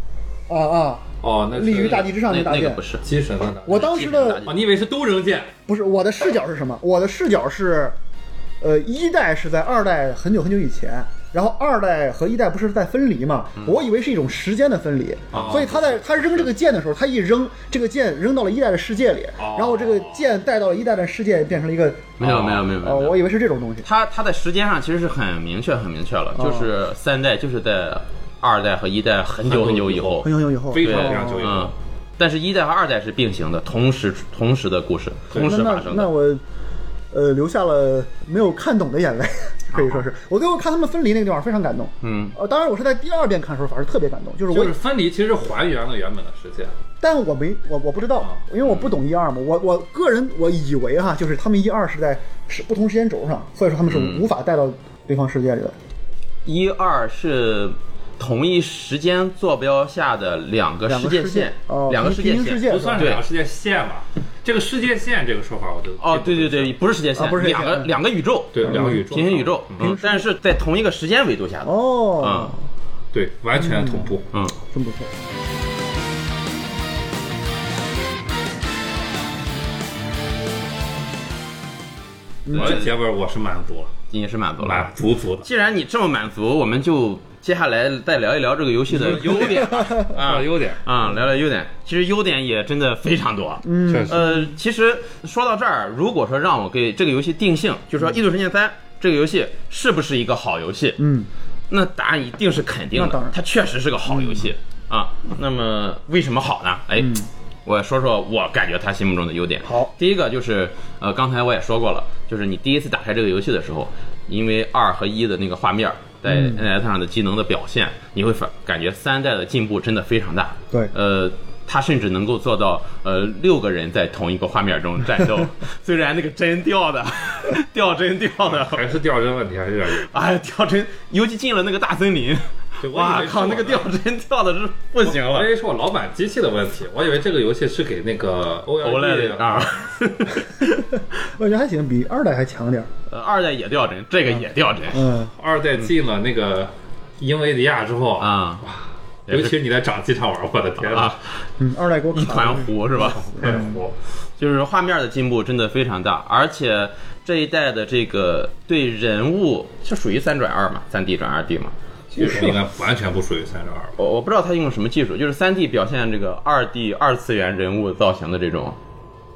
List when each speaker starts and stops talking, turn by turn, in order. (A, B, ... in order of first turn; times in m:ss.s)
0:00.5-0:02.8 A
0:01.2-0:02.1 B
0:01.8-0:03.0 C
0:03.0-0:05.5 B
0:03.6-0:04.4 A
0:03.7-0:04.5 C
0:05.7-0:08.0 A
0:08.6-0:23.9 A
0:15.3-0:16.5 B
0:19.4-0:20.2 B
0:22.2-0:23.2 C
0:22.2-0:22.6 B
0:23.8-0:30.3 C
0:26.4-0:26.7 A
0:29.4-0:31.7 B
0:30.2-0:31.6 A
0:30.8-0:36.1 C
0:35.3-0:35.6 B
0:35.4-0:36.4 A
0:37.1-0:44.7 A
0:39.7-0:40.0 C
0:42.0-0:42.3 C
0:44.5-0:46.7 B
0:47.0-0:55.8 A
0:53.9-0:54.2 C
0:56.4-1:03.2 C
1:00.9-1:03.1 A
1:02.6-1:06.7 B
1:06.0-1:12.5 C
1:07.2-1:07.9 A
1:08.5-1:10.0 B
1:08.6-1:09.0 A
1:09.8-1:10.3 A
1:11.6-1:12.6 A
1:13.1-1:14.3 B
1:13.6-1:14.1 A
1:14.7-1:15.1 A
1:22.4-1:22.8 A
1:22.5-1:23.9 B
1:22.5-1:22.9 C
1:24.1-1:41.0 C
1:24.6-1:25.5 B
1:28.9-1:30.8 B
1:29.1-1:30.1 A
1:33.6-1:34.5 A
1:33.9-1:34.2 B
1:41.0-1:41.3 A
1:41.7-2:08.8 C
1:42.9-1:43.3 A
1:47.0-1:47.3 A
1:56.2-1:56.6 A
2:08.4-2:10.1 B
2:09.9-2:15.5 C
2:12.8-2:13.9 B
2:15.0-2:19.9 B
2:18.8-2:20.7 C
2:20.6-2:22.9 A
2:23.1-2:25.1 C
2:24.9-2:25.3 A
2:25.4-2:31.2 B
2:28.2-2:28.6 C
2:29.3-2:29.5 C
2:30.8-2:31.2 C
2:31.6-2:33.8 A
2:32.1-2:33.4 C
2:33.0-2:33.9 B
2:34.4-2:41.7 C
2:42.1-2:43.9 B
2:42.2-2:42.6 A
2:44.0-2:48.8 C